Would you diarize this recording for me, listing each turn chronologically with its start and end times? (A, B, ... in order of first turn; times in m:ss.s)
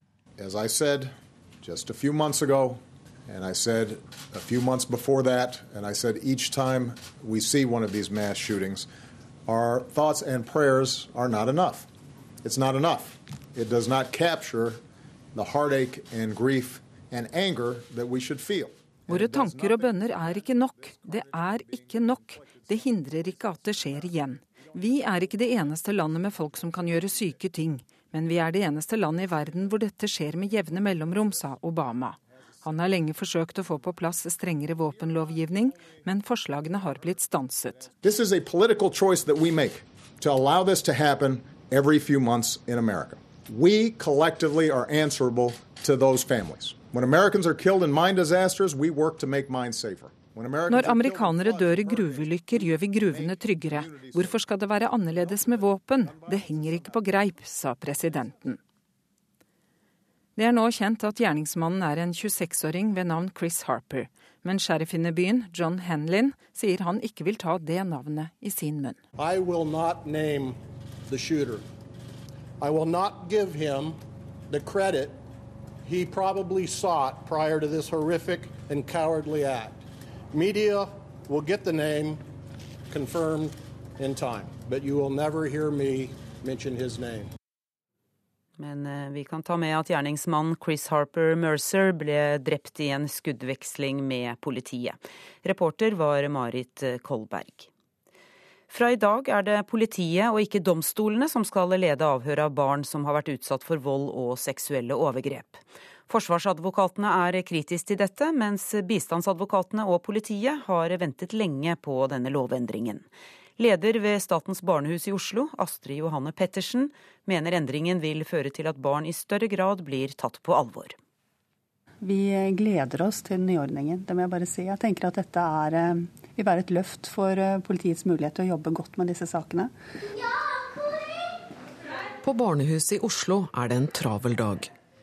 0:00.4-0:08.9 A
0:09.5-0:11.9 A
0:12.4-0:14.8 A
0:15.3-0:22.7 A
0:19.1-0:37.9 B
0:23.7-0:24.0 A
0:38.0-0:54.5 A
0:50.7-0:58.6 B
0:55.1-0:57.2 A
1:00.4-1:09.0 B
1:09.2-1:10.6 C
1:11.1-1:11.6 C
1:12.6-1:14.0 C
1:14.5-1:15.2 C
1:15.9-1:19.7 C
1:20.3-1:22.2 C
1:22.9-1:27.3 C
1:28.6-1:37.7 D
1:38.7-1:53.0 D
1:53.6-2:01.0 D
2:02.0-2:09.7 E
2:12.2-2:14.7 F